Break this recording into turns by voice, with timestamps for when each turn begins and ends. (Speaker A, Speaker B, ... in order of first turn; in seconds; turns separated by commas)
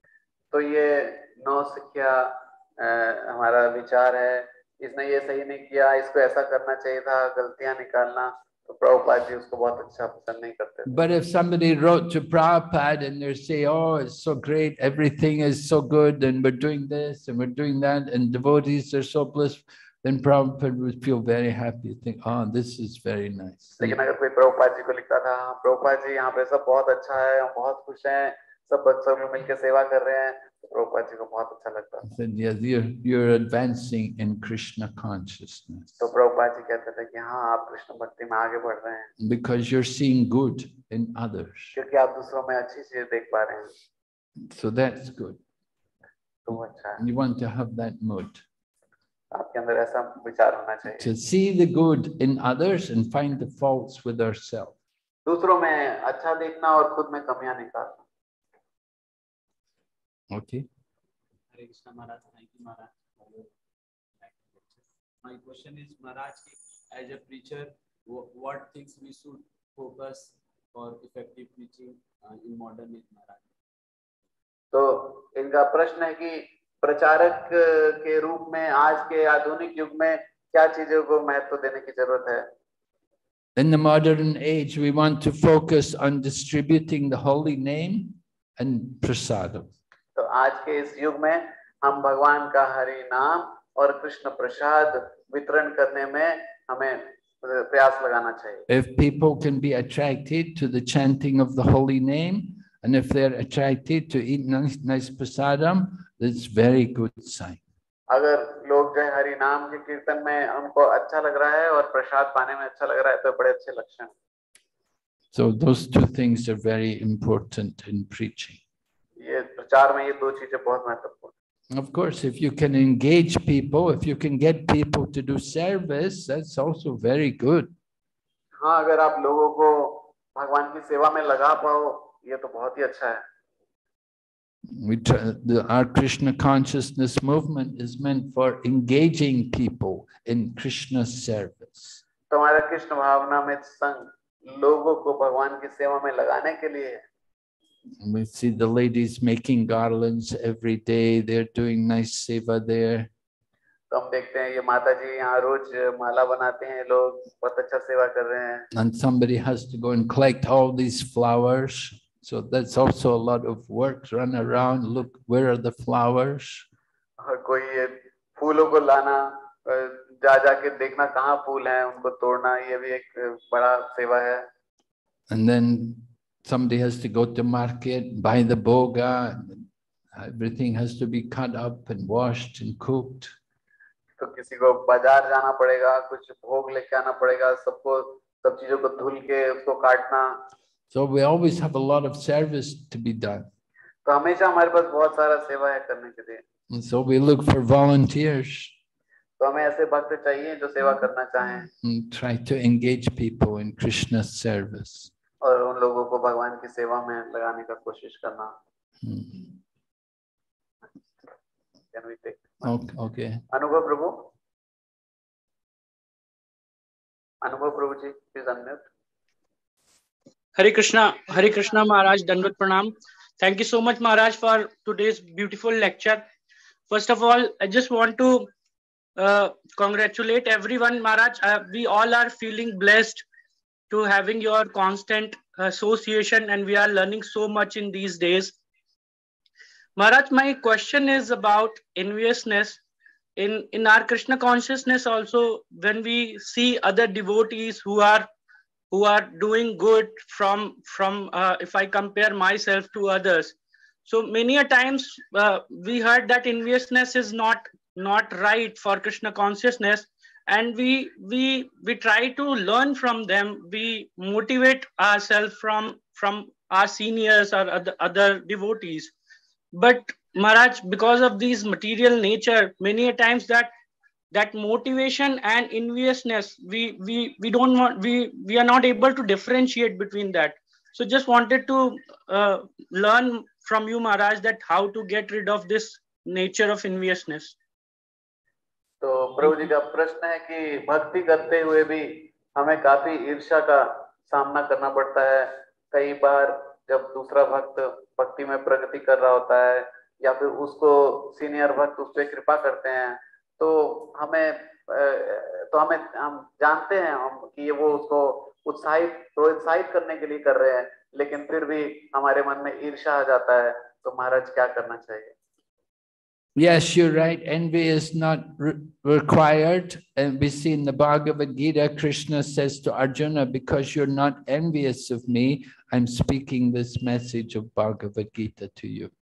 Speaker A: 0.5-10.9, Speaker B: 10.8-24.0, Speaker A: 23.8-32.0, Speaker B: 32.0-36.0, Speaker A: 36.0-39.1, Speaker B: 39.2-41.8, Speaker A: 41.7-43.7, Speaker B: 44.5-45.4, Speaker A: 46.5-47.0, Speaker B: 47.0-48.4, Speaker A: 49.3-51.1, Speaker B: 51.0-54.7, Speaker A: 55.2-58.0, Speaker B: 60.3-60.7, Speaker C: 61.5-63.5, Speaker C: 64.2-73.5, Speaker A: 74.7-82.5, Speaker B: 83.5-89.7, Speaker A: 90.2-98.6, Speaker B: 98.7-107.6, Speaker A: 108.1-114.1, Speaker B: 115.3-118.6, Speaker A: 119.2-121.3, Speaker B: 121.7-127.7, Speaker A: 128.6-133.2, Speaker B: 134.7-142.0, Speaker A: 142.3-147.0, Speaker B: 148.0-153.1, Speaker A: 153.9-158.7, Speaker B: 158.7-166.6, Speaker A: 167.2-174.4, Speaker B: 175.3-183.3, Speaker A: 184.2-190.4, Speaker B: 190.9-193.5, Speaker A: 194.0-196.4, Speaker B: 196.7-198.7, Speaker A: 199.4-201.7, Speaker B: 201.8-205.1, Speaker A: 205.4-208.5, Speaker B: 209.0-209.6, Speaker A: 211.9-212.7, Speaker B: 212.6-213.4, Speaker A: 213.5-214.3, Speaker A: 217.4-218.8, Speaker D: 220.6-226.2, Speaker D: 226.9-228.5, Speaker D: 229.2-233.2, Speaker D: 233.9-238.5, Speaker D: 240.0-242.8, Speaker D: 243.4-248.3, Speaker D: 248.9-253.6, Speaker D: 254.1-269.1, Speaker D: 269.7-273.7, Speaker D: 274.3-287.5, Speaker A: 289.0-315.3, Speaker B: 316.6-329.1